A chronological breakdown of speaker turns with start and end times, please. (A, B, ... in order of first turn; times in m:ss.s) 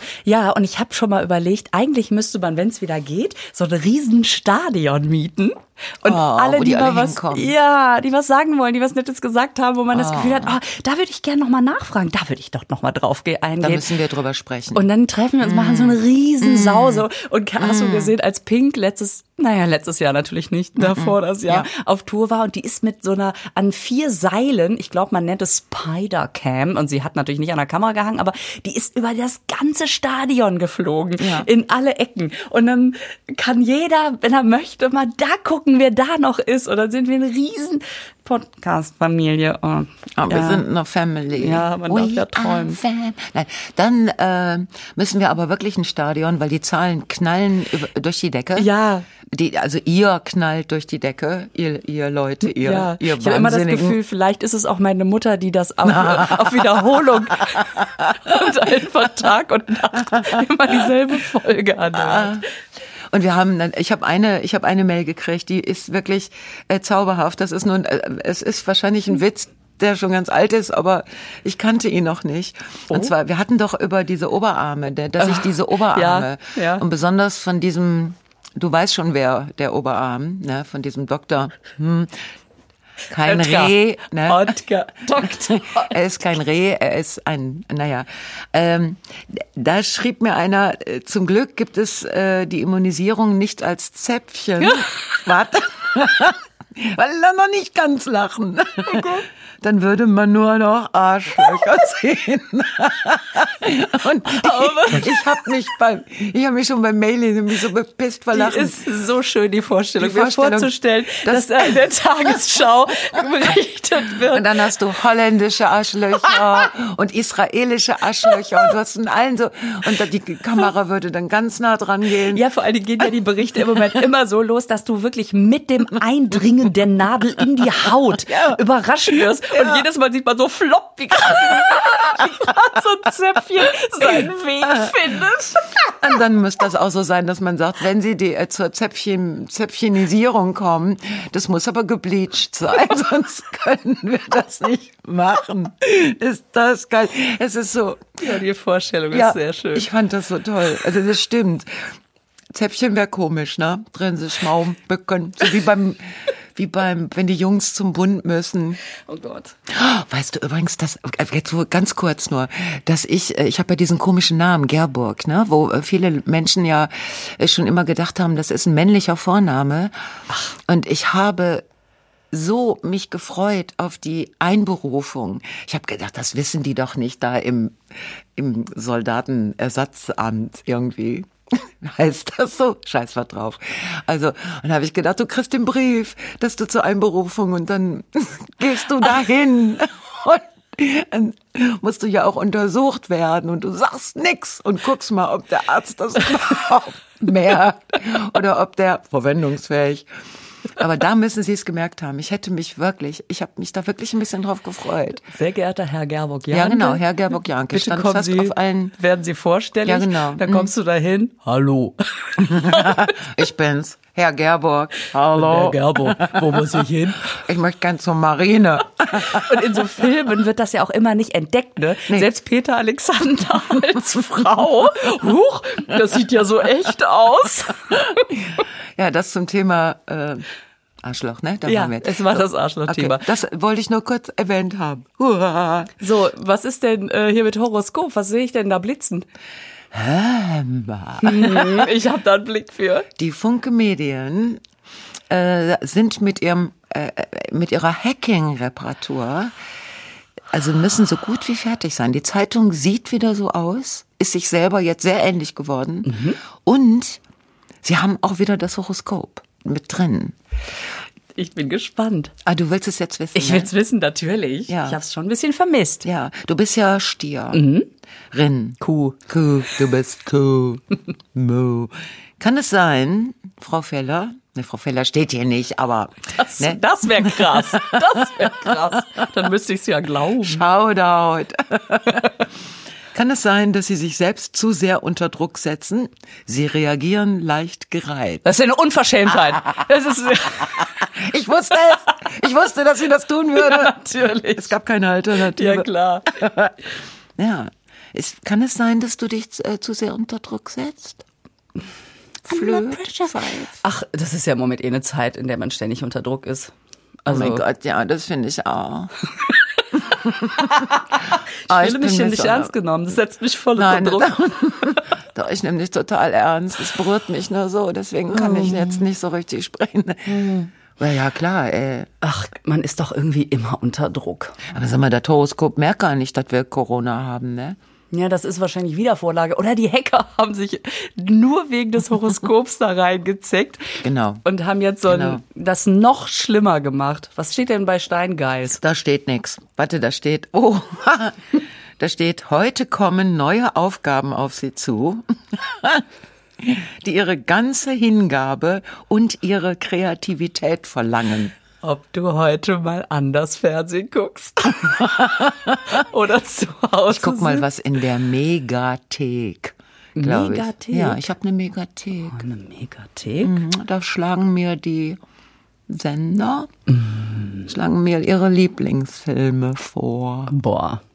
0:00.2-0:13.8 A
0:06.0-0:07.5 B
0:09.9-0:10.6 B
0:13.6-0:14.8 B
0:14.7-0:40.6 A
0:15.4-0:17.0 B
0:17.6-0:18.1 B
0:20.8-0:21.7 B
0:31.2-0:31.5 B
0:40.2-0:48.7 B
0:41.3-0:42.8 A
0:48.6-0:49.0 A
0:49.3-0:54.0 B
0:52.4-1:02.4 A
0:55.8-0:58.4 B
1:01.9-1:02.5 B
1:03.1-1:22.1 B
1:15.2-1:16.8 A
1:23.1-1:24.6 B
1:23.2-1:26.0 A
1:25.2-1:48.8 B
1:38.9-1:39.2 A
1:44.2-1:45.2 A
1:48.3-1:54.5 A
1:50.0-1:51.8 B
1:54.3-2:02.4 B
2:02.2-2:16.2 A
2:08.2-2:08.6 B
2:09.1-2:09.8 B
2:15.9-2:28.2 B
2:28.2-2:29.9 A
2:29.1-2:31.8 B
2:32.5-2:38.8 B
2:39.0-2:39.5 A
2:39.7-2:49.9 B
2:50.6-2:51.6 B
2:52.3-2:57.8 B
2:58.4-3:20.0 B
3:20.8-3:25.3 B
3:25.3-3:27.0 A
3:26.5-3:28.9 B
3:27.7-3:33.2 A
3:29.8-3:30.7 B
3:32.4-3:39.8 B
3:35.3-3:37.4 A
3:39.1-3:48.3 A
3:48.4-3:50.5 B
3:51.0-3:55.9 B
3:51.6-3:53.2 A
3:56.0-3:59.3 A
3:59.9-4:01.9 B
4:01.2-4:03.1 A
4:03.2-4:04.6 B
4:05.3-4:09.5 B
4:10.5-4:17.2 B
4:16.0-4:16.4 A
4:17.8-4:20.4 B
4:21.3-4:22.3 A
4:22.4-4:23.7 B
4:23.3-4:26.0 A
4:24.7-4:25.0 B
4:26.0-4:27.6 B
4:27.5-4:27.9 A
4:28.3-4:39.3 B
4:28.8-4:29.2 A
4:36.3-4:40.6 A
4:40.4-4:42.4 B
4:43.1-4:48.5 B
4:48.4-4:51.0 A
4:50.6-4:54.0 B
4:53.5-4:54.7 A
4:54.5-4:56.8 B
4:55.3-4:56.3 A
4:57.4-5:01.2 B
5:02.5-5:03.8 B
5:02.5-5:07.6 A
5:07.3-5:09.1 B
5:09.9-5:12.7 B
5:10.6-5:15.0 A
5:13.8-5:22.1 B
5:18.3-5:19.0 A
5:20.3-5:20.7 A
5:22.2-5:24.6 A
5:24.7-5:27.8 B
5:28.1-5:38.8 A
5:34.0-5:34.4 B
5:35.1-5:35.4 B
5:38.8-5:46.0 B
5:46.6-5:51.5 B
5:51.8-5:55.2 A
5:54.8-5:56.0 B
5:55.8-5:57.6 A
5:57.1-6:02.4 B
6:00.2-6:01.2 A
6:02.3-6:03.6 A
6:03.4-6:05.2 B
6:05.9-6:06.7 B
6:06.9-6:07.7 A
6:07.6-6:10.5 B
6:10.5-6:11.0 A